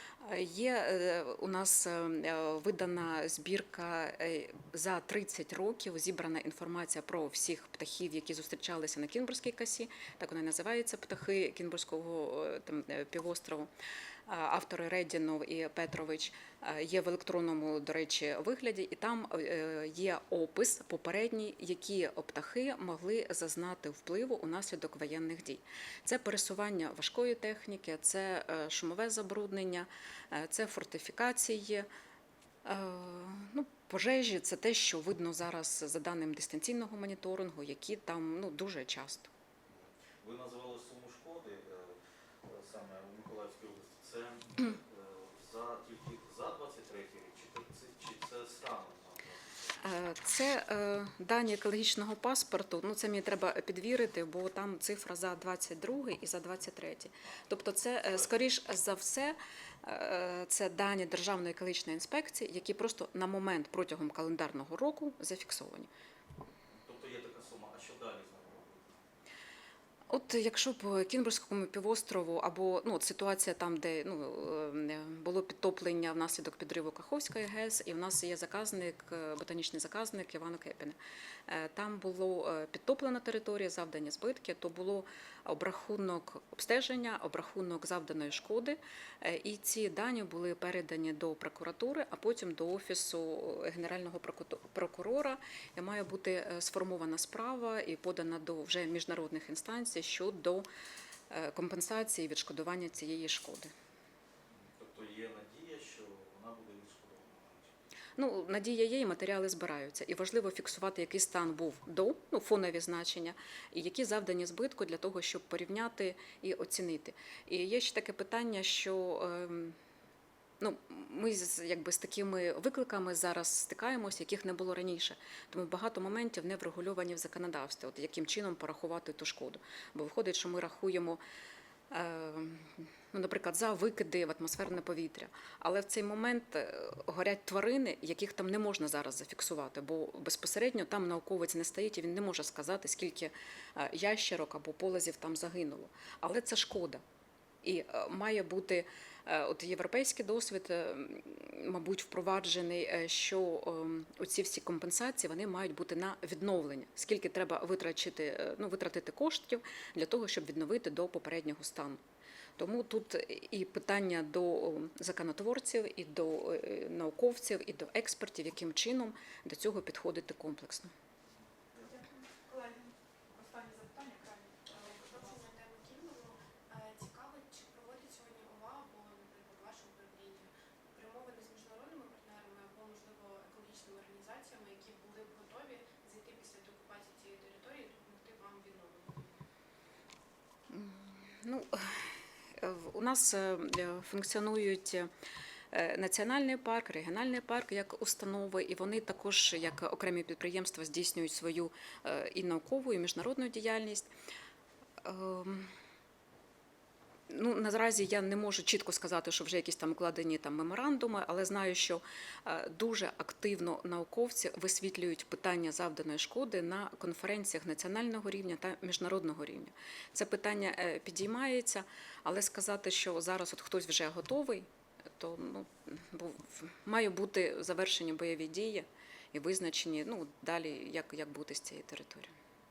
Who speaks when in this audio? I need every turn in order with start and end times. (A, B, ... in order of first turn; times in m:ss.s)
0:00.2-0:13.7 A
0:14.3-0:31.9 A
0:32.6-0:39.3 A
0:39.7-0:49.8 B
0:49.8-1:05.9 A
1:06.7-1:09.0 B
1:10.1-1:21.0 A
1:21.5-1:40.7 A
1:41.3-1:43.7 A
1:44.5-1:47.8 B
1:48.2-1:59.8 A
2:00.6-2:11.2 A
2:11.9-2:27.0 A
2:27.6-2:42.0 A
2:42.6-2:50.9 A
2:51.8-2:55.4 C
2:54.7-3:09.4 D
3:10.7-3:15.1 A
3:15.7-3:24.1 A
3:25.0-3:25.7 A
3:27.3-3:52.4 A